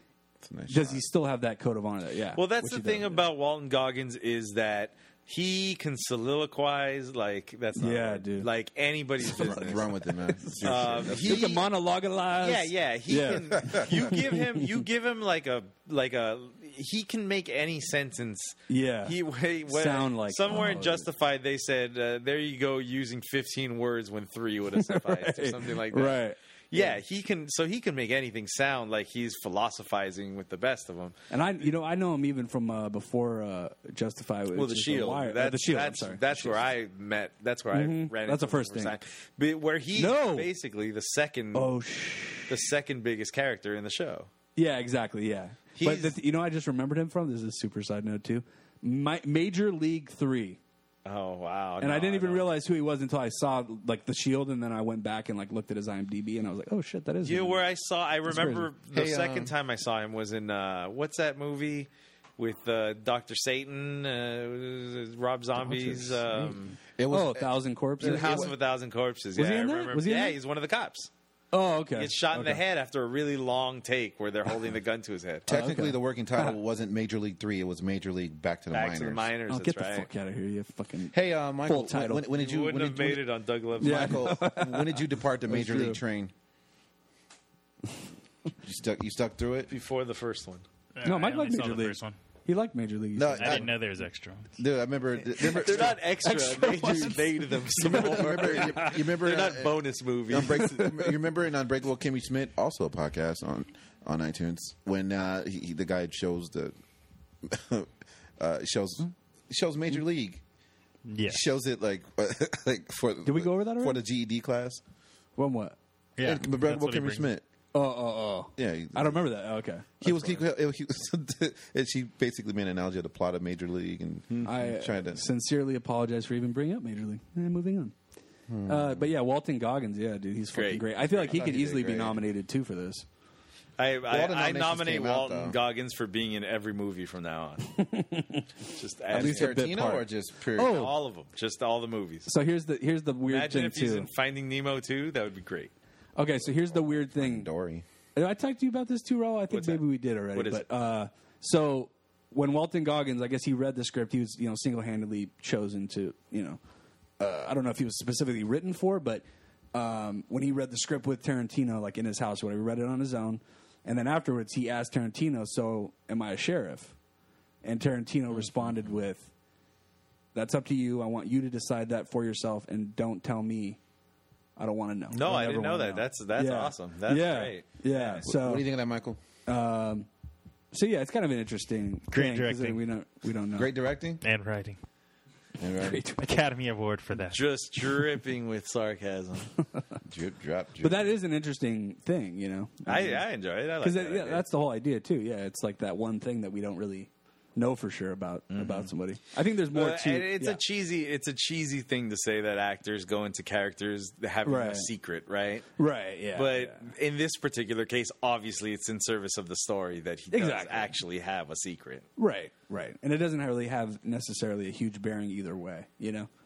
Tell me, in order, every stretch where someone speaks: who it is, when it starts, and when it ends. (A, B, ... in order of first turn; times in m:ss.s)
0:00.4-0:01.0 A
0:00.7-0:03.3 B
0:02.4-0:09.9 C
0:07.8-0:08.5 B
0:09.2-0:11.6 A
0:09.2-0:10.4 B
0:10.6-0:11.7 C
0:11.2-0:14.7 B
0:12.4-0:31.2 C
0:13.5-0:14.2 A
0:18.7-0:19.2 B
0:19.7-0:21.1 B
0:24.8-0:27.0 B
0:31.3-0:36.6 B
0:34.5-0:41.8 C
0:37.7-0:39.0 B
0:40.0-0:40.5 B
0:41.5-0:42.6 B
0:42.5-0:44.3 C
0:44.6-0:50.6 B
0:45.8-0:46.2 C
0:51.0-0:52.5 C
0:51.8-0:57.6 B
0:57.2-1:06.8 C
0:58.3-0:58.7 B
0:58.9-0:59.5 A
1:05.7-1:06.2 B
1:07.0-1:08.5 A
1:07.1-1:08.5 B
1:08.0-1:11.1 C
1:09.4-1:10.4 B
1:11.5-1:12.6 B
1:12.0-1:15.5 C
1:15.5-1:19.3 A
1:15.5-1:16.6 B
1:18.7-1:20.1 C
1:19.5-1:22.2 B
1:21.1-1:23.2 A
1:22.3-1:24.4 C
1:23.8-1:26.3 A
1:23.8-1:26.0 B
1:28.6-1:29.7 A
1:29.7-1:30.6 C
1:31.0-1:32.2 D
1:31.0-1:33.7 B
1:33.2-1:33.7 A
1:33.4-1:34.5 D
1:34.6-1:36.0 A
1:35.3-1:40.8 C
1:35.4-1:38.9 B
1:37.8-1:46.7 A
1:40.6-1:41.1 B
1:47.4-1:50.4 A
1:51.0-1:51.4 D
1:51.3-1:54.8 A
1:53.2-1:54.0 B
1:55.4-1:55.8 B
1:56.2-1:57.3 D
1:56.2-1:57.4 A
1:57.7-2:00.4 B
1:58.6-1:59.2 A
2:00.0-2:05.2 A
2:04.4-2:08.0 B
2:08.5-2:09.1 A
2:08.6-2:13.1 B
2:10.5-2:10.9 C
2:11.1-2:12.2 A
2:13.8-2:17.8 C
2:14.1-2:15.6 A
2:17.7-2:18.5 B
2:18.6-2:19.8 C
2:19.1-2:20.0 B
2:19.1-2:20.8 A
2:20.6-2:20.9 B
2:20.6-2:22.3 C
2:22.3-2:24.1 B
2:23.3-2:25.7 C
2:26.2-2:27.5 B
2:26.7-2:27.8 A
2:28.2-2:36.6 B
2:29.5-2:30.6 C
2:37.2-2:46.9 B
2:47.6-2:49.3 B
2:50.4-2:53.8 B
2:54.6-2:58.6 B
2:55.1-2:58.3 C
2:58.3-2:59.2 A
2:59.5-3:00.1 B
3:00.7-3:03.7 B
3:02.1-3:02.8 D
3:03.6-3:04.2 A
3:04.2-3:04.8 D
3:05.6-3:06.0 A
3:05.8-3:06.3 B
3:06.2-3:07.4 D
3:07.3-3:09.5 C
3:10.0-3:11.1 A
3:10.8-3:13.2 B
3:12.9-3:14.4 C
3:13.8-3:20.6 B
3:18.5-3:18.9 C
3:19.7-3:25.8 C
3:24.5-3:24.9 B
3:25.8-3:26.9 B
3:26.3-3:32.1 C
3:30.3-3:31.0 B
3:32.2-3:36.3 B